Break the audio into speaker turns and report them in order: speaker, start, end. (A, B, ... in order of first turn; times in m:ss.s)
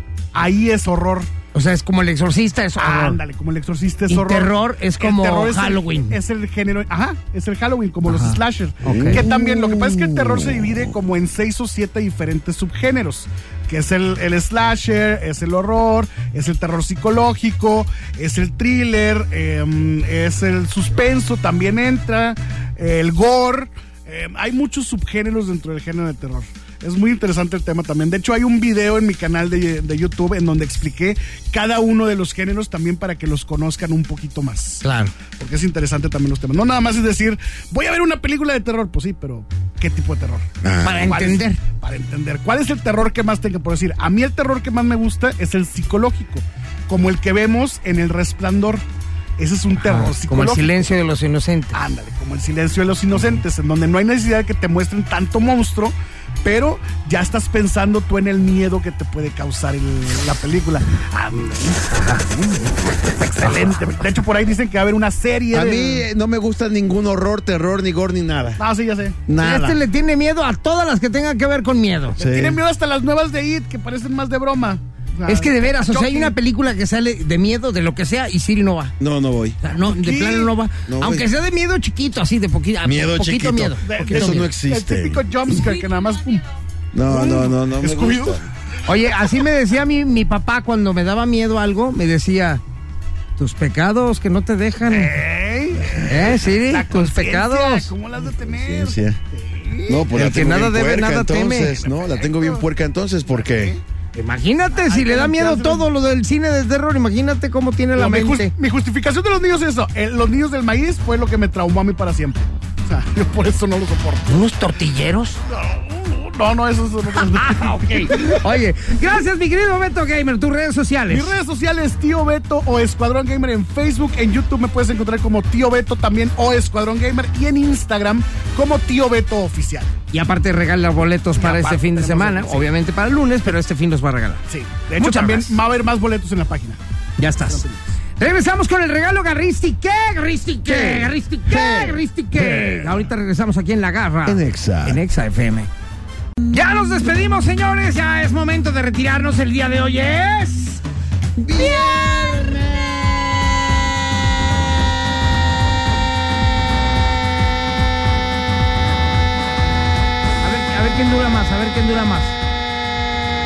0:00.3-0:01.3 A
0:01.5-0:03.2 B
0:02.8-0:40.5 A
0:04.1-0:06.2 B
0:08.1-0:09.2 B
0:08.8-0:10.8 C
0:34.8-0:35.2 B
0:40.6-0:41.1 C
0:40.8-0:41.6 B
0:41.0-0:48.8 A
0:49.4-0:50.8 A
0:49.8-0:51.8 B
0:51.7-1:06.0 A
1:05.5-1:08.6 C
1:08.6-1:09.5 A
1:09.3-1:09.8 C
1:09.4-1:12.2 B
1:12.2-1:16.4 A
1:12.2-1:12.6 C
1:15.3-1:19.0 B
1:19.0-1:19.6 C
1:19.6-1:24.5 B
1:19.8-1:20.6 A
1:20.9-1:21.3 C
1:22.8-1:25.3 C
1:23.8-1:26.4 A
1:26.9-1:28.4 C
1:27.1-1:28.4 A
1:28.8-1:32.6 B
1:33.4-1:35.2 B
1:34.9-1:40.2 A
1:35.9-1:36.3 C
1:36.0-1:37.9 B
1:38.2-1:39.2 C
1:39.9-1:43.8 C
1:40.1-1:41.8 B
1:41.6-1:42.6 A
1:43.3-1:43.8 A
1:44.2-1:48.5 B
1:44.8-1:45.9 A
1:48.0-1:54.4 A
1:54.3-1:55.4 B
1:55.5-1:58.5 A
1:57.1-2:01.3 B
2:01.1-2:10.0 A
2:10.1-2:14.4 B
2:11.4-2:12.7 A
2:14.5-2:16.8 A
2:15.0-2:15.6 B
2:17.2-2:17.6 B
2:17.5-2:17.9 A
2:18.2-2:25.7 B
2:20.6-2:22.8 C
2:24.2-2:25.0 C
2:26.5-2:30.8 B
2:31.4-2:33.8 C
2:40.4-2:42.4 B